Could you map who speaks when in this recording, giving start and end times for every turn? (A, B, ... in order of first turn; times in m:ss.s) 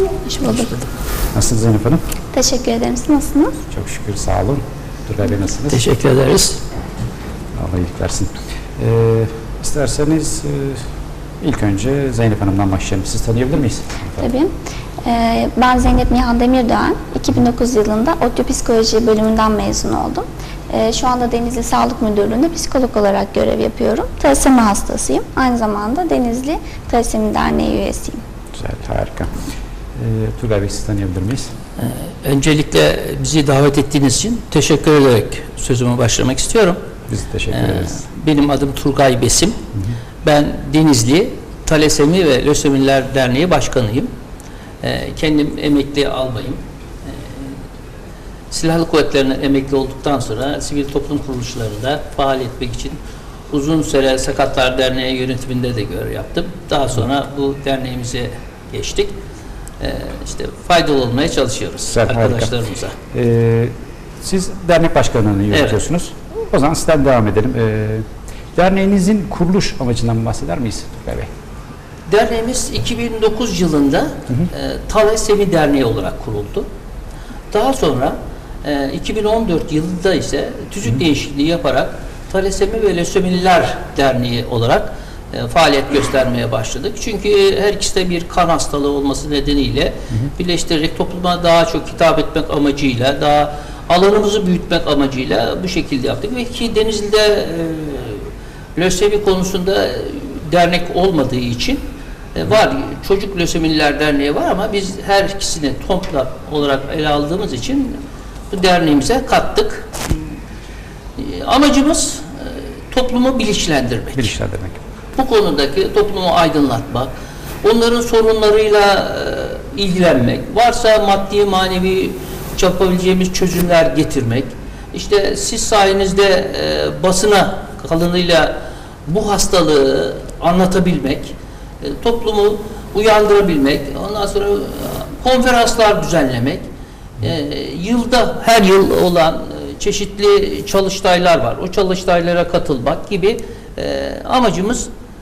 0:00.2-0:00.9 A
0:01.3-0:02.0 B
0:02.3-0:03.6 A
0:03.7-0:05.8 B
0:05.7-0:06.6 C
0:07.6-0:10.8 B
0:11.4-0:14.3 B
0:14.2-0:14.5 A
0:15.0-0:28.2 A
0:28.6-0:29.3 B
0:30.0-0:31.5 B
0:31.8-0:36.8 C
0:37.1-0:38.0 B
0:37.5-0:39.6 C
0:40.2-0:44.1 C
0:44.8-0:47.5 C
0:48.5-0:53.0 C
0:53.5-0:59.2 C
0:59.8-1:03.0 C
1:01.9-1:02.5 B
1:03.1-1:11.3 B
1:05.5-1:05.8 C
1:12.1-1:16.7 C
1:17.5-1:41.8 C
1:42.4-1:48.0 C
1:48.5-1:50.2 C
1:51.2-1:54.3 C
1:54.2-1:54.8 B
1:55.2-1:57.1 C
1:57.6-2:16.6 C
2:17.2-2:24.9 C